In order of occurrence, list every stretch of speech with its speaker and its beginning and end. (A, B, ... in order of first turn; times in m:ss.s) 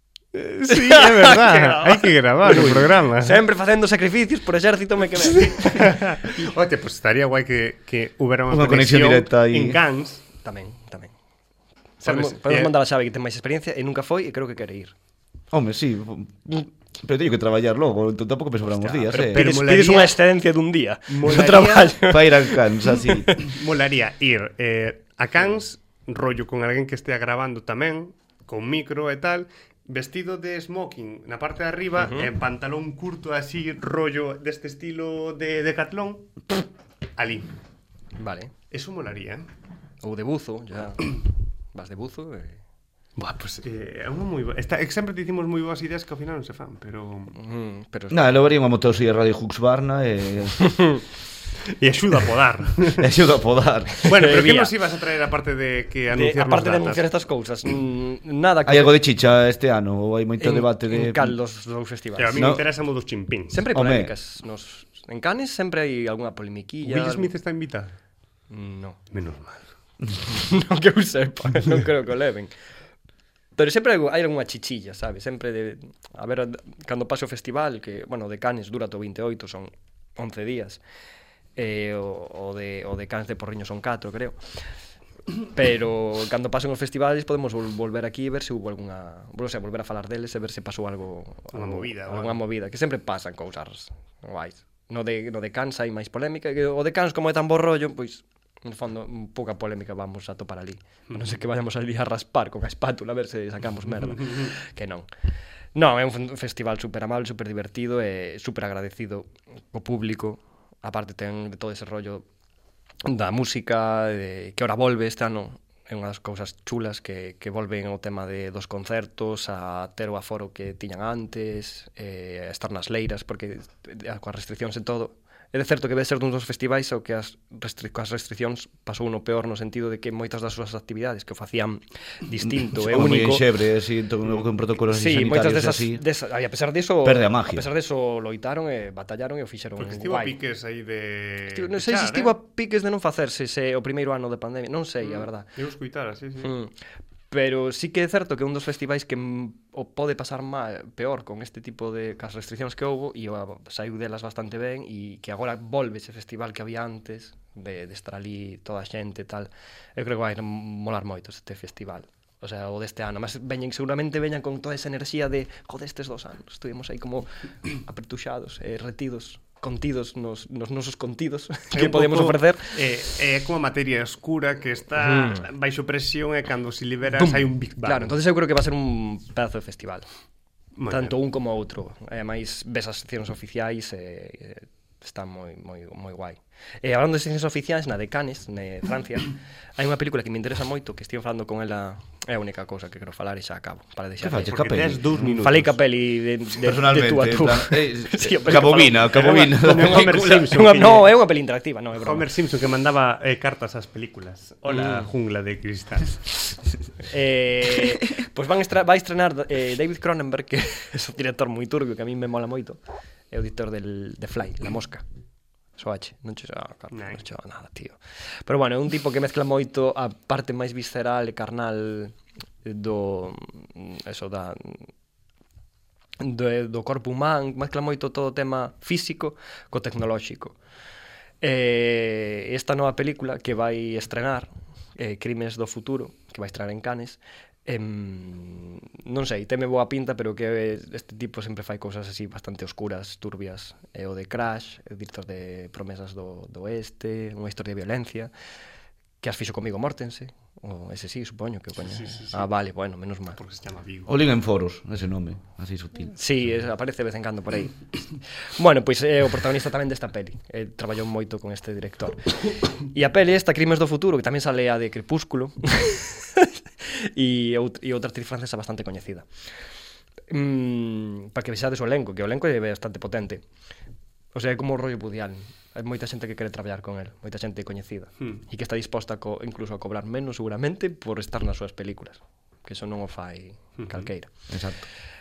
0:00.3-0:03.4 A
0:00.7-0:06.0 B
0:05.2-0:10.2 A
0:08.5-0:09.8 C
0:10.4-0:11.1 B
0:12.0-0:14.9 B
0:12.0-0:12.7 A
0:15.5-0:19.5 C
0:18.6-0:23.4 B
0:19.3-0:20.2 A
0:21.1-0:22.0 A
0:22.0-0:23.3 C
0:23.4-0:36.6 A
0:32.0-0:32.3 B
0:37.2-0:37.5 A
0:38.2-0:38.5 B
0:38.7-0:39.5 A
0:40.0-0:41.2 B
0:41.7-0:42.6 B
0:43.2-0:47.4 A
0:47.4-0:48.4 B
0:48.1-0:50.7 C
0:51.8-0:53.1 A
0:53.0-0:54.0 C
0:54.0-0:54.7 B
0:54.0-0:57.0 A
0:56.1-0:59.0 B
0:58.6-1:01.4 C
1:00.4-1:02.6 B
1:02.2-1:03.6 A
1:02.3-1:02.6 C
1:03.5-1:07.3 B
1:03.7-1:04.1 C
1:06.8-1:07.9 A
1:08.5-1:09.0 B
1:09.1-1:09.6 A
1:10.3-1:12.5 B
1:13.6-1:20.8 B
1:21.6-1:24.4 B
1:25.5-1:45.1 B
1:31.5-1:32.4 A
1:44.1-1:44.5 A
1:45.7-1:52.2 B
1:53.0-2:13.4 B
2:12.4-2:16.0 C
2:14.9-2:20.4 B
2:17.0-2:17.7 C
2:19.8-2:22.3 A
2:21.5-2:25.5 B
2:25.0-2:26.5 A
2:26.4-2:26.7 B
2:27.3-2:52.8 B
2:51.7-2:58.1 A
2:55.0-2:55.4 B
2:57.2-3:00.0 B
3:00.8-3:01.2 A
3:00.9-3:22.3 B
3:14.2-3:15.6 C
3:14.5-3:15.7 A
3:16.6-3:20.5 C
3:19.1-3:21.1 A
3:22.0-3:26.2 A
3:24.7-3:25.1 B
3:27.1-3:32.8 B
3:33.3-3:35.0 B
3:35.8-3:44.9 B
3:36.9-3:37.2 A
3:46.2-3:50.6 B
3:51.4-4:08.3 B
4:09.2-4:13.4 B
4:11.8-4:12.4 A
4:13.4-4:14.1 A
4:14.1-4:16.2 C
4:16.2-4:17.8 B
4:18.6-4:22.3 B
4:22.9-4:29.3 B
4:30.3-4:33.4 B
4:34.3-4:44.3 B
4:43.8-4:44.1 A
4:44.5-4:44.8 C